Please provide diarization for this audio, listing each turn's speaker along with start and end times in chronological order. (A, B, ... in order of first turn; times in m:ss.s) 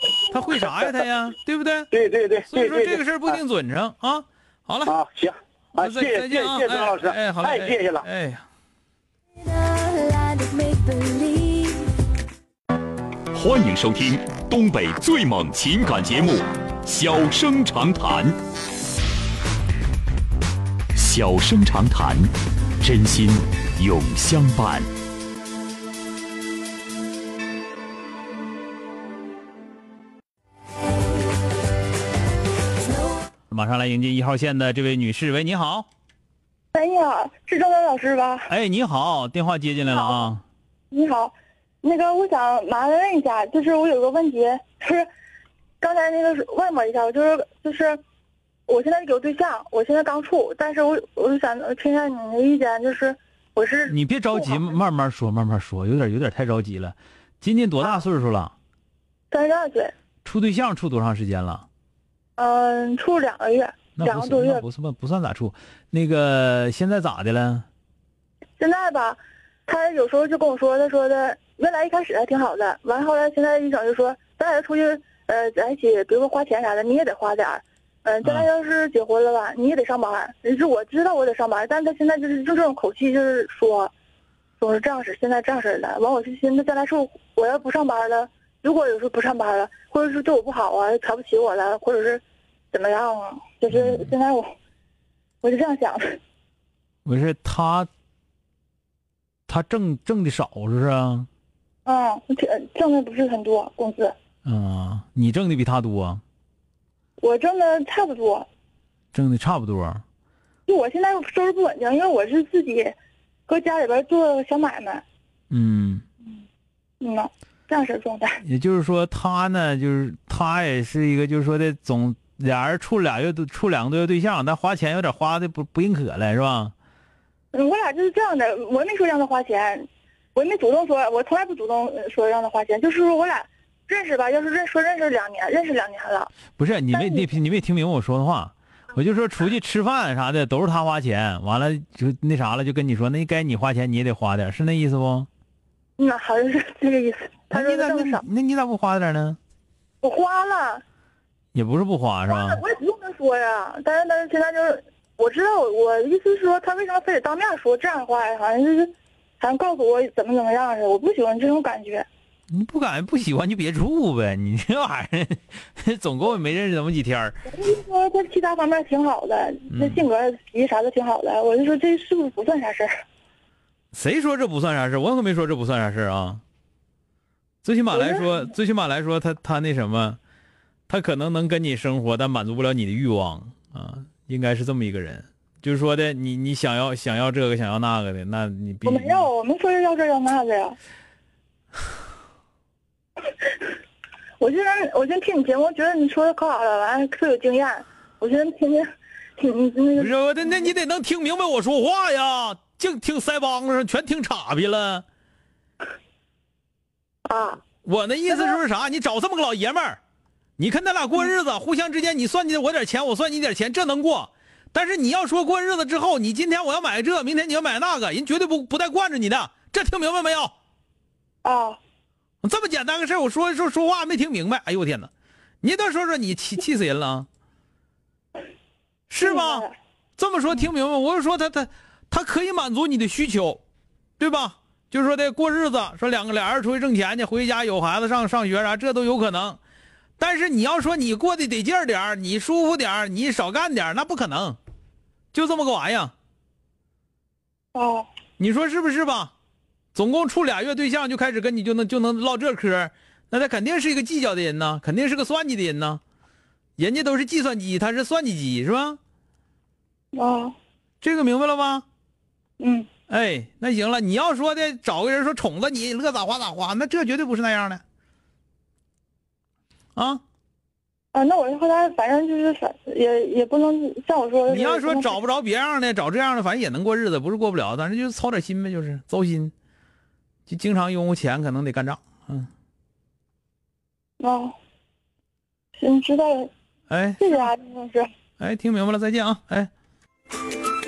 0:00.3-0:01.9 A
0:00.6-0:01.0 B
0:01.9-0:03.4 B
0:02.5-0:04.9 A
0:04.9-0:08.1 B
0:05.8-0:08.5 A
0:13.3-0:18.4 C
0:21.0-0:24.9 C
0:33.5-0:35.9 A
0:36.7-0:38.5 D
0:38.5-0:40.4 A
0:39.9-0:40.3 D
0:40.9-0:45.1 D
0:45.8-0:48.0 D
0:48.7-0:54.7 D
0:53.9-0:58.5 A
0:59.3-0:59.9 D
1:00.2-1:01.7 A
1:02.4-1:04.6 D
1:04.0-1:07.7 A
1:08.6-1:23.9 D
1:24.6-1:34.5 D
1:33.7-1:34.0 A
1:35.4-1:36.2 D
1:37.0-1:37.9 A
1:39.5-1:41.3 A
1:41.8-1:44.1 D
1:44.4-1:46.2 A
1:47.2-1:48.5 D
1:49.1-1:50.0 A
1:50.7-1:53.0 D
1:53.5-1:55.0 D
1:55.5-1:56.0 A
1:57.0-1:58.4 D
1:58.4-2:06.7 A
2:07.5-2:16.3 D
2:16.6-2:25.3 A
2:16.9-2:17.3 D
2:26.0-2:28.2 D
2:27.5-2:29.4 A
2:30.0-2:30.8 D
2:31.5-2:32.6 A
2:32.3-2:42.1 D
2:42.5-2:47.4 A
2:47.5-2:52.9 D
2:49.7-2:50.0 A
2:53.9-2:56.4 A
2:57.6-3:00.2 A
2:57.9-2:58.3 D
3:00.9-3:09.3 A
3:08.8-3:10.8 D
3:14.4-3:18.9 D
3:19.4-3:20.7 D
3:20.0-3:25.0 A
3:27.3-3:27.6 D
3:27.8-3:30.0 A
3:28.3-3:28.6 D
3:30.6-3:40.5 A
3:41.4-3:41.8 D
3:42.4-3:45.1 A
3:45.6-3:47.3 A
3:49.1-3:49.6 A
3:49.2-3:49.7 D
3:50.2-3:53.6 A
3:54.2-3:59.6 A
4:00.2-4:04.6 A
4:05.3-4:06.1 A
4:07.7-4:08.1 D
4:08.4-4:09.3 A
4:09.9-4:16.0 A
4:16.8-4:19.0 A
4:20.1-4:20.6 D
4:21.0-4:21.8 A
4:22.6-4:22.9 D
4:23.1-4:27.8 A
4:30.0-4:30.2 A
4:31.1-4:35.2 D
4:34.5-4:39.5 A
4:40.5-4:42.5 A
4:44.2-4:44.6 D
4:45.8-4:46.5 D
4:46.9-4:47.5 A
4:47.2-4:48.1 D
4:48.4-4:49.7 A